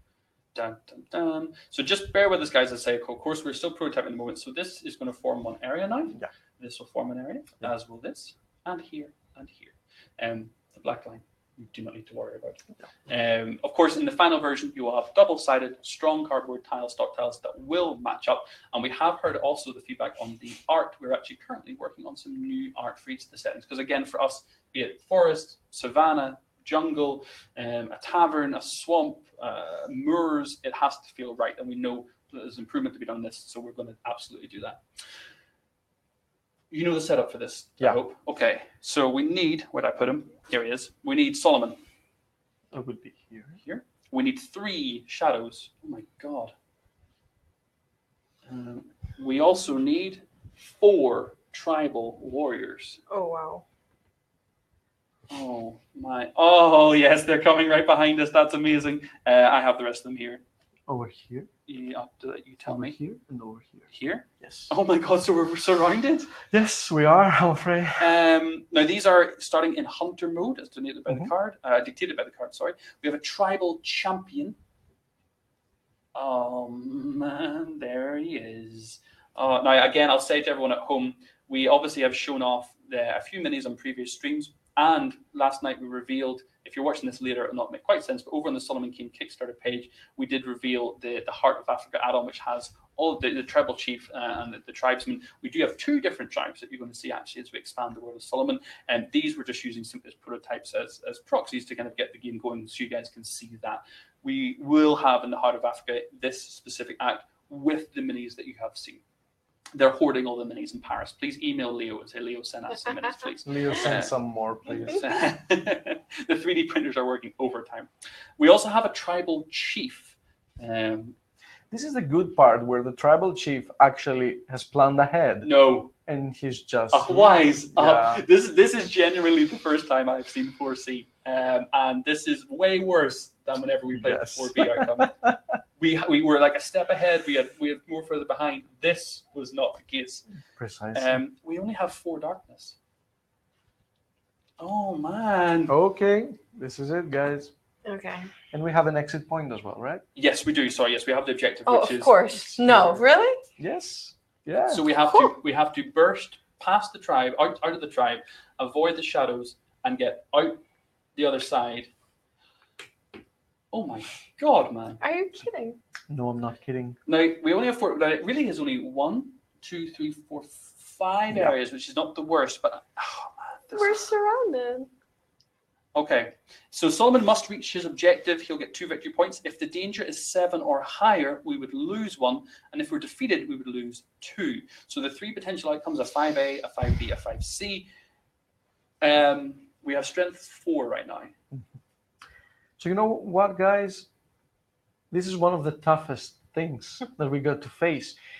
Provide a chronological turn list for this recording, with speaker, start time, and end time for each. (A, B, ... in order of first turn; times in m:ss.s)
0:00.5-0:34.8 A
0:36.7-0:41.8 A
0:42.7-0:43.6 B
0:43.6-0:46.5 A
0:48.5-0:53.0 A
0:53.1-0:53.6 C
0:55.3-1:00.4 A
1:00.9-1:01.5 B
1:01.7-1:03.0 A
1:02.6-1:03.9 B
1:03.9-1:06.3 A
1:04.4-1:04.7 B
1:06.5-1:08.2 B
1:08.0-1:14.6 A
1:16.1-1:49.0 A
1:49.7-1:54.1 A
1:53.4-1:55.0 B
1:54.6-2:01.2 A
2:01.7-2:08.2 B
2:05.4-2:05.9 A
2:06.9-2:15.2 A
2:13.9-2:15.4 B
2:15.8-2:20.2 A
2:20.6-2:21.2 B
2:20.9-2:22.8 A
2:24.6-2:25.7 A
2:25.7-2:27.5 B
2:27.8-2:28.3 C
2:28.5-2:30.0 B
2:30.2-2:33.0 A
2:31.6-2:33.4 C
2:33.6-2:34.8 B
2:34.7-2:40.6 A
2:41.2-2:41.9 A
2:43.7-2:45.0 A
2:45.0-2:45.8 C
2:46.1-2:47.0 B
2:47.1-2:54.1 A
2:53.7-2:54.9 C
2:55.9-3:07.9 A
3:09.0-3:11.3 A
3:12.8-3:14.1 B
3:15.1-3:18.2 B